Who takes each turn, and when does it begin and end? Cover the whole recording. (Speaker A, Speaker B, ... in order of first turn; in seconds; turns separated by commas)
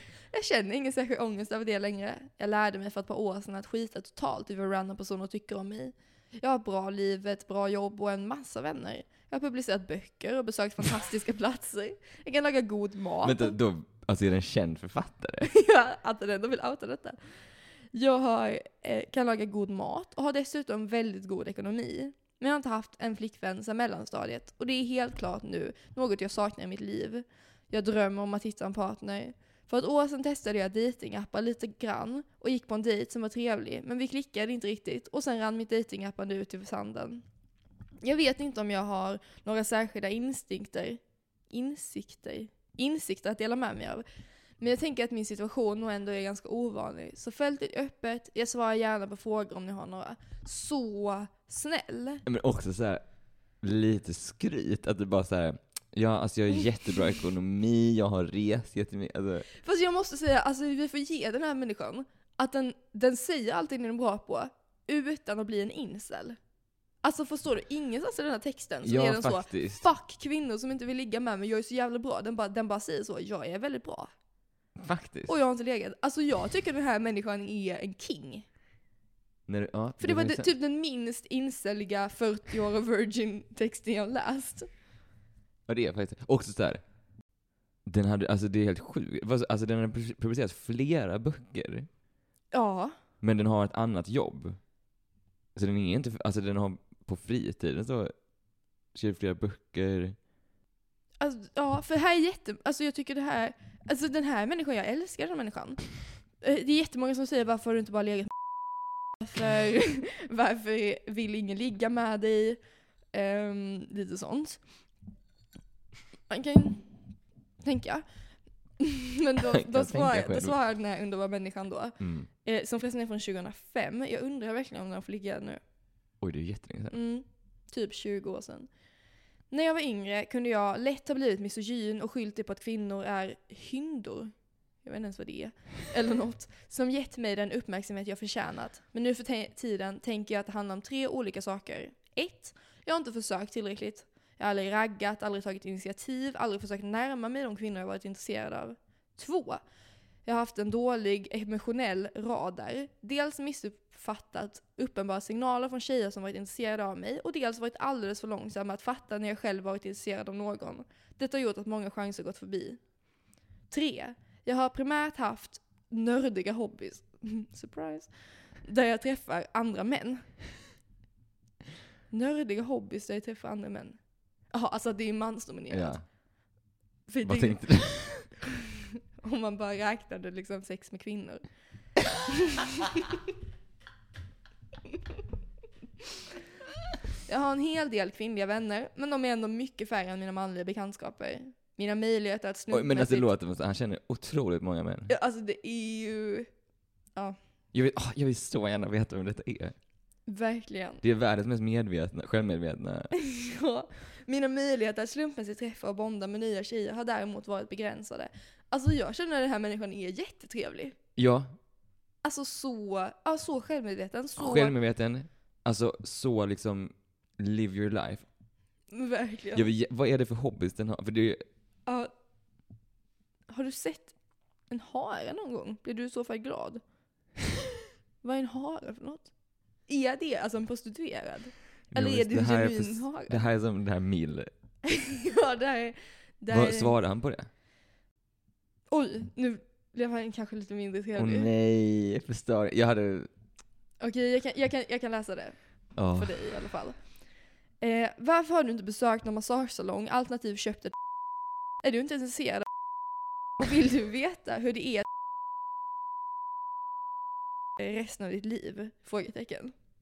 Speaker A: 0.3-13.6, Speaker B: 13.2-15.5, Speaker A: 15.4-17.2, Speaker A: 17.9-37.2, Speaker A: 38.0-44.0, Speaker A: 44.6-52.2, Speaker B: 52.2-53.0, Speaker B: 53.6-59.5, Speaker A: 59.5-66.4, Speaker A: 67.0-74.1, Speaker B: 68.8-69.8, Speaker B: 74.8-75.3, Speaker A: 75.3-78.5, Speaker B: 79.5-80.5, Speaker A: 80.0-84.7, Speaker B: 85.7-86.8, Speaker B: 87.8-91.9, Speaker A: 92.5-92.9, Speaker B: 93.2-94.6, Speaker B: 95.5-98.1, Speaker B: 98.9-100.2, Speaker A: 101.2-108.3, Speaker A: 109.2-112.6, Speaker A: 113.1-114.6, Speaker A: 116.3-116.9, Speaker A: 117.6-118.0, Speaker A: 118.8-125.6, Speaker B: 119.4-120.5, Speaker B: 122.0-122.3, Speaker B: 126.2-127.0, Speaker A: 126.9-128.7, Speaker A: 129.5-134.3, Speaker A: 134.8-149.6, Speaker A: 150.2-162.8, Speaker A: 163.7-170.3, Speaker A: 172.1-174.0, Speaker A: 174.5-176.0, Speaker B: 175.7-176.0, Speaker A: 177.1-178.4, Speaker B: 177.2-178.3, Speaker A: 179.2-181.4, Speaker A: 182.2-183.2, Speaker A: 187.2-193.3, Speaker B: 192.7-195.1, Speaker A: 195.1-196.5, Speaker B: 197.7-199.8, Speaker A: 200.3-201.0, Speaker B: 201.0-203.1, Speaker A: 203.1-211.0, Speaker B: 211.2-211.5, Speaker A: 212.2-214.7, Speaker B: 214.4-218.2, Speaker A: 218.9-219.7, Speaker B: 219.5-221.4, Speaker A: 223.5-224.1, Speaker A: 224.7-226.8, Speaker A: 228.2-229.3, Speaker A: 229.9-233.4, Speaker B: 231.9-234.5, Speaker A: 234.8-236.9, Speaker B: 236.5-237.5, Speaker A: 238.9-241.5, Speaker B: 241.2-243.3, Speaker A: 244.0-245.6, Speaker B: 245.9-246.4, Speaker A: 246.1-247.0, Speaker A: 247.8-250.9, Speaker A: 251.8-252.7, Speaker A: 253.6-255.1, Speaker A: 257.8-259.7